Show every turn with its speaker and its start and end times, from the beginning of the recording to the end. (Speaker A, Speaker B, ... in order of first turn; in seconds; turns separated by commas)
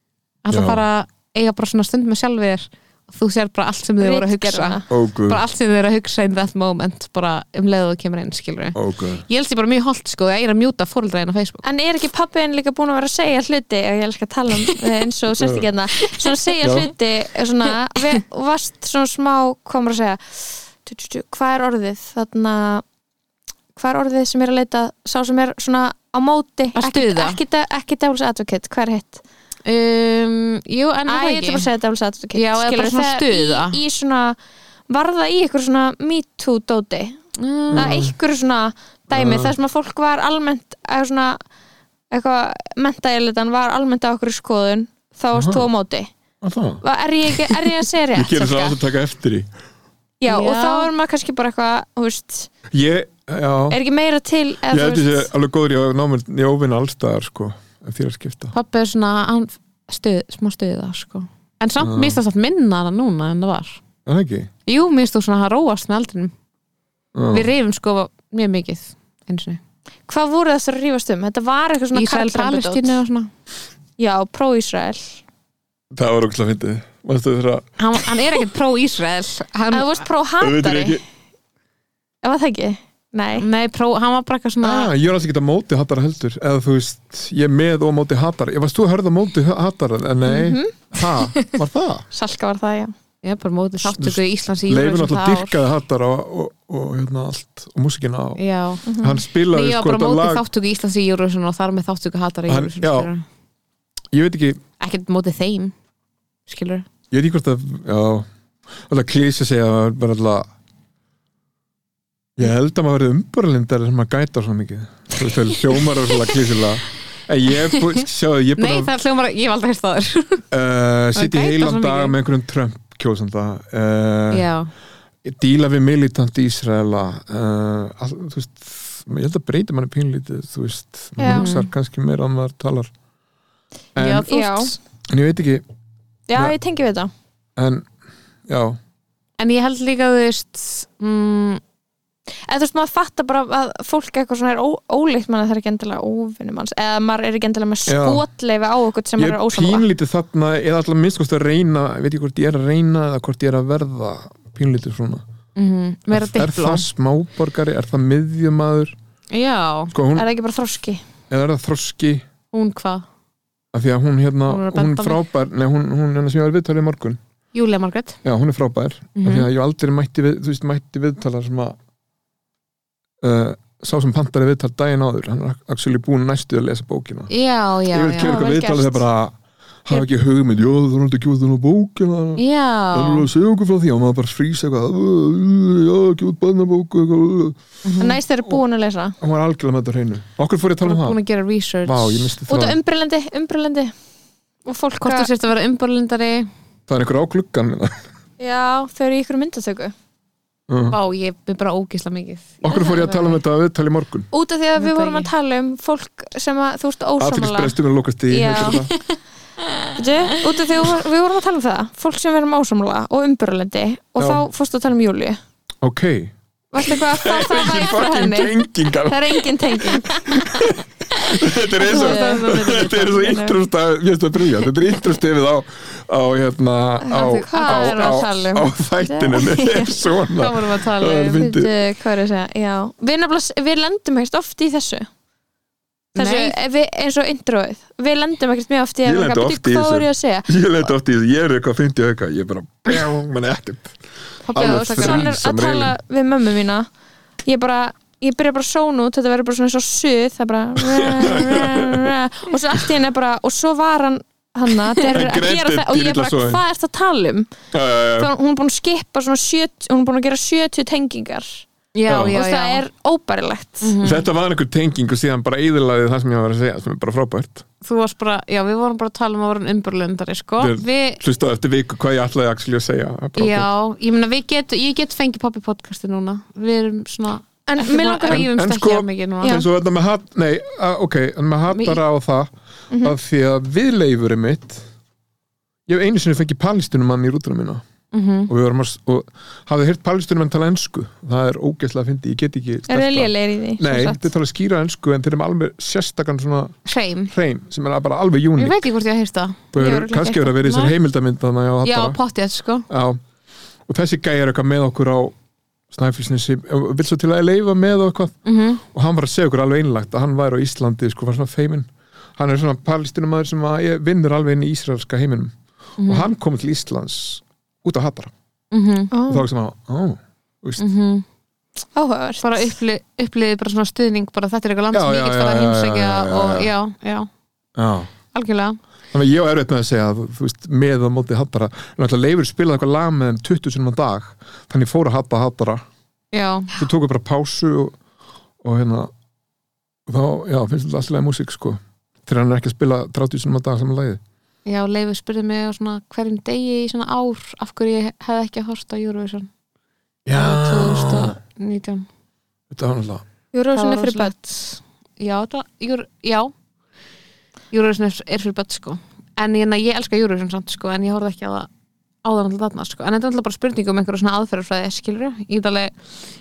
Speaker A: 0.5-11.6, Speaker B: 0.5-0.8, Speaker C: 4.0-4.8, Speaker B: 4.9-5.4, Speaker B: 8.8-9.2, Speaker C: 11.6-22.8, Speaker B: 15.4-15.7, Speaker B: 16.6-16.9, Speaker C: 23.8-29.2, Speaker A: 26.8-27.4, Speaker A: 29.7-31.7, Speaker C: 31.1-34.4, Speaker A: 32.3-33.8, Speaker C: 34.9-37.2, Speaker A: 37.4-38.0, Speaker B: 37.7-38.1, Speaker C: 37.7-41.4, Speaker B: 39.1-39.5, Speaker C: 42.1-46.1, Speaker B: 45.4-45.7, Speaker B: 46.4-46.8, Speaker C: 46.8-48.8, Speaker B: 48.1-49.5, Speaker C: 50.2-52.5, Speaker A: 50.3-50.9, Speaker B: 52.7-53.8, Speaker C: 53.7-55.3, Speaker B: 54.7-58.5, Speaker A: 58.5-63.8, Speaker B: 61.8-62.2, Speaker B: 64.1-64.5, Speaker A: 64.7-66.3, Speaker B: 67.2-67.5, Speaker A: 67.3-69.6, Speaker C: 70.1-73.0, Speaker A: 71.9-73.3, Speaker C: 74.0-75.2, Speaker B: 75.9-77.7, Speaker A: 77.8-80.0, Speaker C: 79.7-81.0, Speaker B: 80.4-81.0, Speaker C: 82.2-83.5, Speaker A: 83.4-84.9, Speaker B: 84.6-92.1, Speaker C: 90.3-90.8, Speaker C: 92.1-92.9, Speaker A: 93.2-95.6, Speaker B: 93.8-98.4, Speaker A: 98.4-98.8, Speaker C: 98.8-99.2, Speaker B: 99.0-100.4, Speaker A: 99.5-103.2, Speaker B: 102.5-103.1, Speaker B: 104.1-104.6, Speaker A: 104.8-105.7, Speaker A: 106.5-106.9, Speaker B: 107.1-108.3, Speaker B: 108.9-110.5, Speaker B: 112.4-118.9, Speaker A: 117.7-118.0, Speaker A: 118.6-120.4, Speaker B: 120.5-124.5, Speaker A: 121.2-122.2, Speaker A: 124.3-124.7, Speaker B: 125.2-132.9, Speaker C: 131.2-131.5, Speaker A: 131.3-131.7, Speaker B: 134.0-134.3, Speaker A: 134.0-134.8, Speaker C: 134.2-134.7, Speaker B: 135.1-135.6, Speaker C: 136.3-137.1, Speaker B: 137.6-137.9, Speaker B: 138.5-138.8, Speaker A: 139.4-141.6, Speaker C: 142.5-149.9, Speaker B: 147.9-148.2, Speaker B: 149.2-155.2, Speaker A: 155.6-156.9, Speaker B: 156.1-159.0, Speaker A: 159.3-159.9, Speaker B: 159.9-160.3, Speaker C: 160.2-161.0, Speaker B: 161.3-162.3, Speaker A: 162.5-163.1, Speaker B: 163.7-167.2, Speaker A: 164.5-165.2, Speaker A: 167.5-168.2, Speaker B: 168.2-171.8, Speaker A: 169.2-169.5, Speaker B: 173.2-177.3, Speaker A: 177.3-178.4, Speaker B: 177.9-187.6, Speaker C: 178.2-179.0, Speaker A: 182.4-183.3, Speaker A: 187.8-188.2, Speaker C: 188.0-189.2, Speaker B: 189.2-191.2, Speaker A: 190.8-192.3, Speaker B: 191.8-192.8, Speaker C: 192.5-193.9, Speaker C: 194.7-195.3, Speaker A: 195.0-196.5, Speaker B: 196.9-198.0, Speaker C: 198.4-199.9, Speaker B: 200.7-201.0, Speaker A: 200.9-203.4, Speaker B: 202.6-204.3, Speaker C: 204.3-207.8, Speaker A: 204.8-205.3, Speaker B: 207.2-208.9, Speaker C: 208.3-208.9, Speaker A: 208.7-209.0, Speaker C: 209.9-215.4, Speaker B: 214.2-214.4, Speaker B: 215.8-216.3, Speaker C: 216.7-220.7, Speaker B: 216.9-231.7, Speaker C: 221.8-223.6, Speaker A: 221.9-222.6, Speaker C: 227.0-230.0, Speaker A: 227.3-228.3, Speaker A: 230.3-231.5, Speaker C: 231.3-235.1, Speaker A: 236.2-236.6, Speaker C: 236.2-240.6, Speaker B: 239.1-244.0, Speaker A: 244.4-245.3, Speaker B: 244.5-246.0, Speaker C: 244.5-246.9, Speaker C: 247.5-257.5, Speaker B: 250.8-252.1, Speaker B: 255.1-256.6, Speaker B: 257.7-258.3, Speaker C: 258.2-261.7, Speaker A: 261.9-262.8, Speaker B: 262.1-262.4, Speaker C: 262.3-264.0, Speaker A: 263.8-264.2, Speaker B: 264.0-267.7, Speaker A: 267.8-271.2, Speaker B: 270.6-273.7, Speaker A: 273.4-279.6, Speaker C: 277.7-278.5, Speaker B: 278.3-282.5, Speaker A: 281.7-282.0, Speaker C: 282.9-283.2, Speaker B: 283.0-284.9, Speaker B: 285.9-287.8, Speaker A: 288.1-288.5, Speaker B: 288.5-296.8, Speaker C: 292.9-294.3, Speaker A: 296.9-297.3, Speaker B: 297.3-298.8, Speaker A: 298.6-299.7, Speaker B: 299.7-302.2, Speaker C: 299.8-300.5, Speaker A: 300.5-300.9, Speaker A: 301.8-302.9, Speaker B: 302.9-303.2, Speaker B: 303.9-305.4, Speaker B: 305.9-308.4, Speaker A: 308.5-308.8, Speaker B: 308.9-315.5, Speaker A: 316.0-316.3, Speaker B: 316.1-318.3, Speaker A: 318.7-319.1, Speaker C: 319.1-319.4, Speaker B: 319.3-320.8, Speaker A: 320.8-321.2, Speaker C: 321.9-322.8, Speaker A: 322.4-327.3, Speaker B: 324.9-326.7, Speaker B: 327.8-328.1, Speaker A: 328.3-328.8, Speaker B: 329.1-335.9, Speaker A: 336.3-336.8, Speaker B: 336.8-338.0, Speaker B: 338.6-339.1, Speaker B: 340.1-344.2, Speaker A: 344.7-349.5, Speaker B: 350.3-351.4, Speaker A: 350.4-352.1, Speaker B: 352.7-353.2, Speaker C: 353.5-354.5, Speaker A: 353.7-354.7, Speaker A: 355.2-356.5, Speaker A: 357.7-361.7, Speaker A: 362.2-365.9